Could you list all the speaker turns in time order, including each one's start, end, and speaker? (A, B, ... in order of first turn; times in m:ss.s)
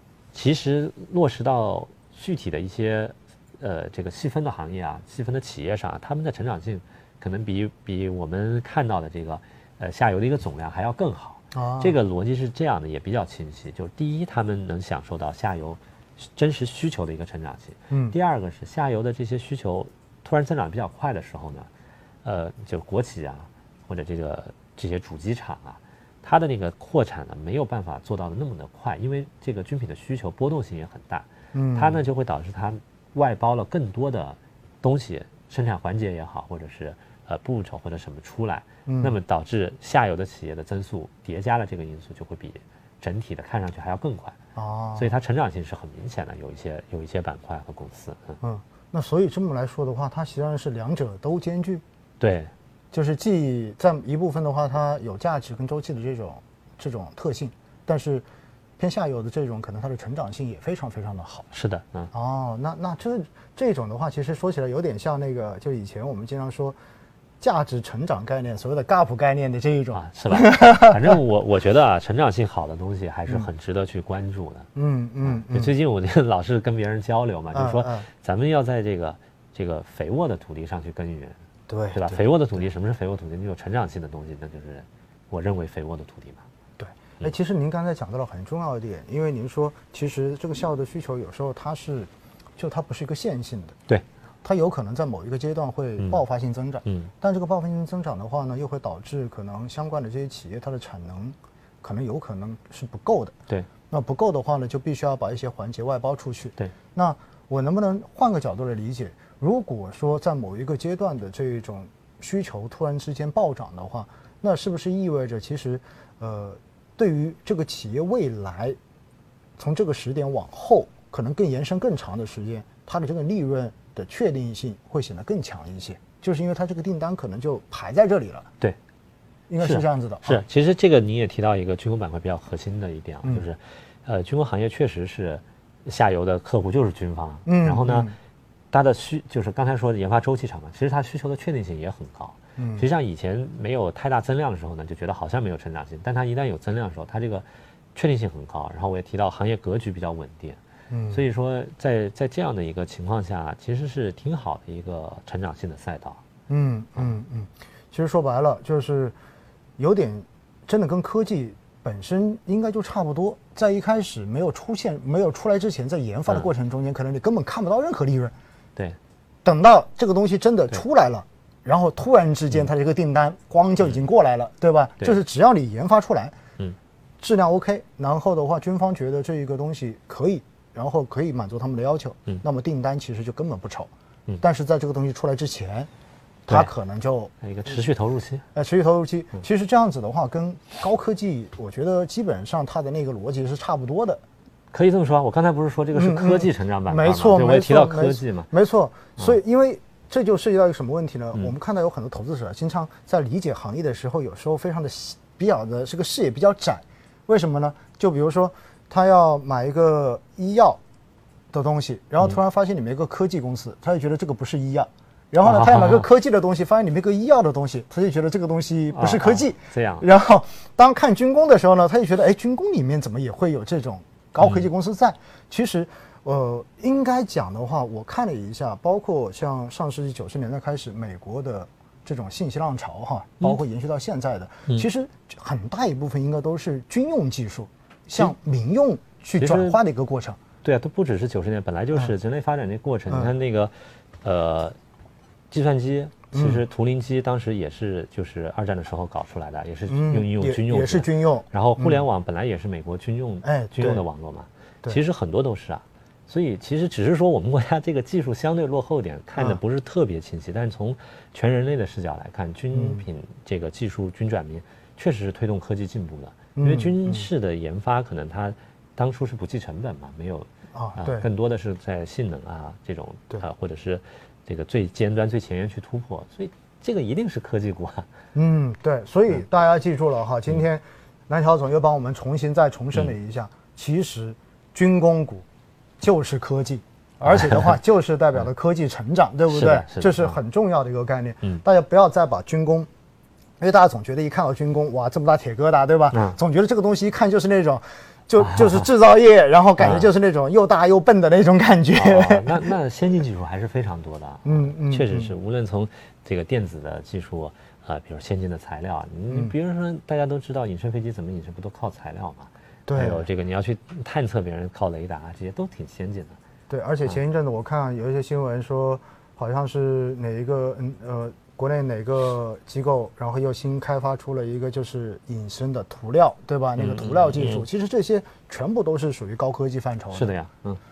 0:00.3-0:21.7 A
0:11.5-0:12.0 B
0:17.9-0:18.2 B
0:22.2-0:44.4 A
0:31.5-0:32.0 B
0:38.9-0:39.2 B
0:44.6-0:45.1 B
0:45.0-0:48.4 A
0:48.4-0:51.8 B
0:52.2-0:52.5 A
0:52.9-0:58.2 B
0:58.8-1:01.5 B
1:01.5-1:02.1 A
1:02.1-1:06.8 B
1:07.4-1:11.1 B
1:09.9-1:14.7 A
1:14.8-1:15.7 B
1:15.2-1:21.4 A
1:17.5-1:18.1 B
1:21.7-1:22.2 B
1:21.9-1:26.4 A
1:26.8-1:33.8 B
1:34.4-1:43.4 B
1:36.8-1:37.1 A
1:43.9-1:58.8 B
1:59.6-2:08.5 B
2:09.5-2:10.4 B
2:09.6-2:18.1 A
2:17.5-2:18.2 B
2:18.7-2:30.6 A
2:22.6-2:22.8 B
2:30.9-2:31.2 B
2:31.1-2:36.2 A
2:36.5-2:39.2 B
2:39.8-2:48.3 B
2:49.4-2:56.4 B
2:57.2-3:05.9 B
3:06.5-3:06.7 A
3:06.5-3:07.3 B
3:07.4-3:08.4 A
3:08.5-3:14.2 B
3:14.7-3:18.5 A
3:16.0-3:30.8 B
3:31.5-4:00.4 B
3:35.4-3:36.0 A
3:38.9-3:40.1 A
3:44.4-3:44.7 A
3:59.4-3:59.8 A
4:00.6-4:04.8 A
4:05.5-4:38.1 A
4:06.3-4:06.6 B
4:09.9-4:12.0 B
4:13.4-4:14.0 B
4:19.4-4:19.6 B
4:22.7-4:23.0 B
4:26.6-4:27.3 B
4:30.7-4:31.3 B
4:38.4-4:45.4 B
4:46.0-4:52.9 B
4:47.2-4:47.8 A
4:49.5-4:50.4 A
4:53.6-5:02.8 B
4:56.1-4:56.4 A
4:58.4-4:58.8 A
4:59.8-5:00.1 A
5:01.9-5:16.4 A
5:04.4-5:05.3 B
5:09.3-5:09.6 B
5:12.9-5:13.3 B
5:16.7-5:30.3 B
5:26.8-5:27.7 A
5:30.1-5:30.8 A